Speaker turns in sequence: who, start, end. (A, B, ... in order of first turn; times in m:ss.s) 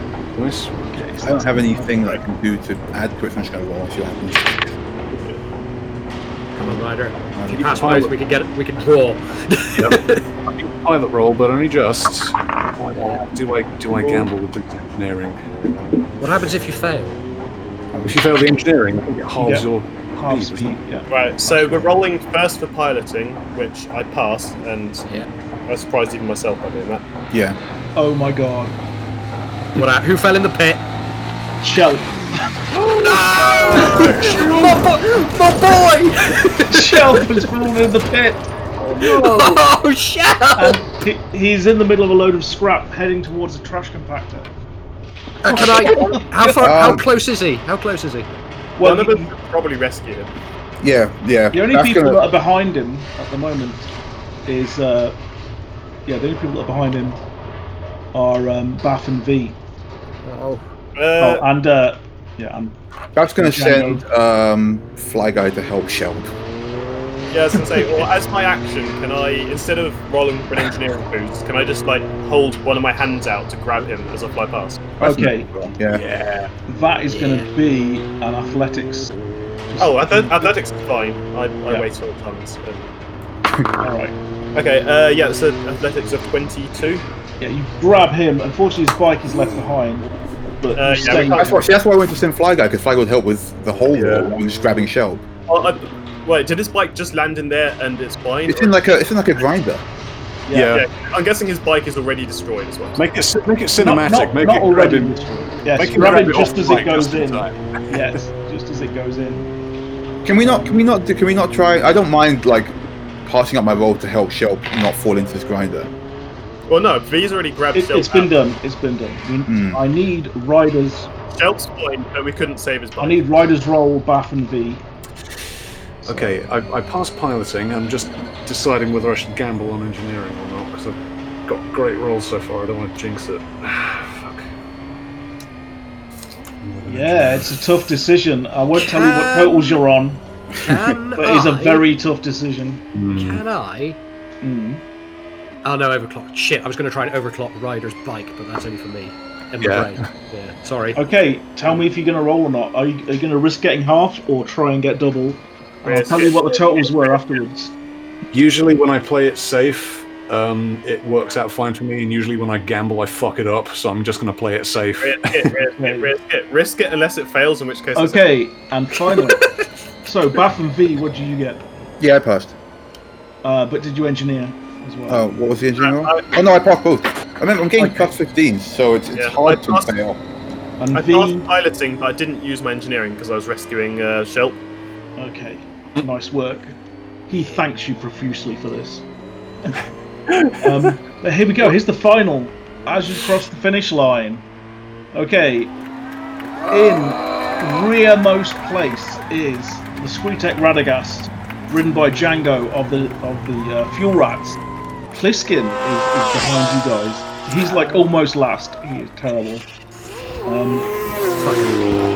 0:00.4-0:00.8 A
0:00.9-0:02.0 B
0:01.2-0:04.7 C
0:06.6-0:10.3 D
0:07.4-0:07.7 C
0:07.5-0:08.1 A
0:09.8-0:15.4 A
0:14.0-0:14.3 E
0:16.2-0:17.2 D
0:17.9-0:18.2 C
0:18.0-0:20.8 A
0:19.4-0:19.7 B
0:20.2-0:21.9 B
0:21.1-0:25.0 E
0:25.7-0:27.0 E
0:27.3-0:27.6 C
0:28.0-0:28.8 B
0:29.8-0:30.8 D
0:31.6-0:32.2 B
0:32.7-0:34.8 A
0:33.0-0:37.5 D
0:36.7-0:38.5 B
0:38.8-0:39.5 A
0:39.0-0:40.8 D
0:40.6-0:44.5 B
0:45.4-0:46.5 B
0:45.4-0:48.3 D
0:46.6-0:47.0 C
0:48.8-0:49.3 B
0:48.8-0:50.3 E
0:50.8-0:52.3 C
0:51.5-0:53.9 B
0:54.5-0:55.2 B
0:56.1-0:57.2 B
0:58.1-0:59.6 B
1:00.2-1:00.6 D
1:01.0-1:01.5 E
1:01.2-1:02.8 B
1:03.2-1:06.3 C
1:03.4-1:04.0 B
1:07.3-1:14.8 E
1:15.0-1:16.0 C
1:15.0-1:15.7 B
1:15.9-1:16.5 A
1:16.7-1:19.1 B
1:17.1-1:17.5 D
1:19.7-1:20.5 B
1:19.8-1:22.9 E
1:23.8-1:24.2 B
1:24.5-1:27.0 E
1:27.4-1:31.7 B
1:30.8-1:31.6 E
1:31.1-1:35.2 C
1:33.9-1:34.3 A
1:35.5-1:38.9 E
1:38.5-1:39.8 C
1:40.5-1:40.8 B
1:40.5-1:40.8 A
1:40.7-1:43.0 E
1:43.0-1:45.2 A
1:43.8-1:49.5 B
1:45.8-1:48.0 A
1:50.2-1:55.9 C
1:50.4-1:50.7 B
1:56.7-1:58.3 E
1:57.7-2:01.1 B
1:59.5-1:59.8 C
2:01.3-2:03.2 E
2:03.0-2:04.8 B
2:06.1-2:06.4 C
2:06.1-2:14.5 A
2:16.6-2:17.6 A
2:16.9-2:20.2 B
2:18.8-2:19.7 D
2:20.6-2:21.9 D
2:21.2-2:22.8 B
2:22.9-2:23.4 A
2:23.1-2:24.0 D
2:24.4-2:24.8 B
2:25.6-2:31.0 D
2:29.6-2:30.0 A
2:30.9-2:37.7 B
2:35.8-2:37.2 E
2:38.3-2:45.5 A
2:45.0-2:48.2 E
2:45.8-2:46.1 B
2:48.0-2:49.4 B
2:50.0-2:51.7 B
2:52.0-2:52.6 C
2:53.4-2:55.3 B
2:55.1-3:00.2 C
2:55.8-2:56.3 E
2:57.8-2:58.1 B
2:59.2-3:00.0 E
3:00.8-3:01.5 B
3:00.9-3:04.6 E
3:05.2-3:06.8 B
3:07.3-3:09.0 B
3:10.3-3:10.6 A
3:10.6-3:14.4 B
3:15.1-3:15.7 B
3:16.7-3:24.6 B
3:25.1-3:29.7 B
3:27.7-3:28.0 D
3:30.5-3:30.9 B
3:31.4-3:31.9 D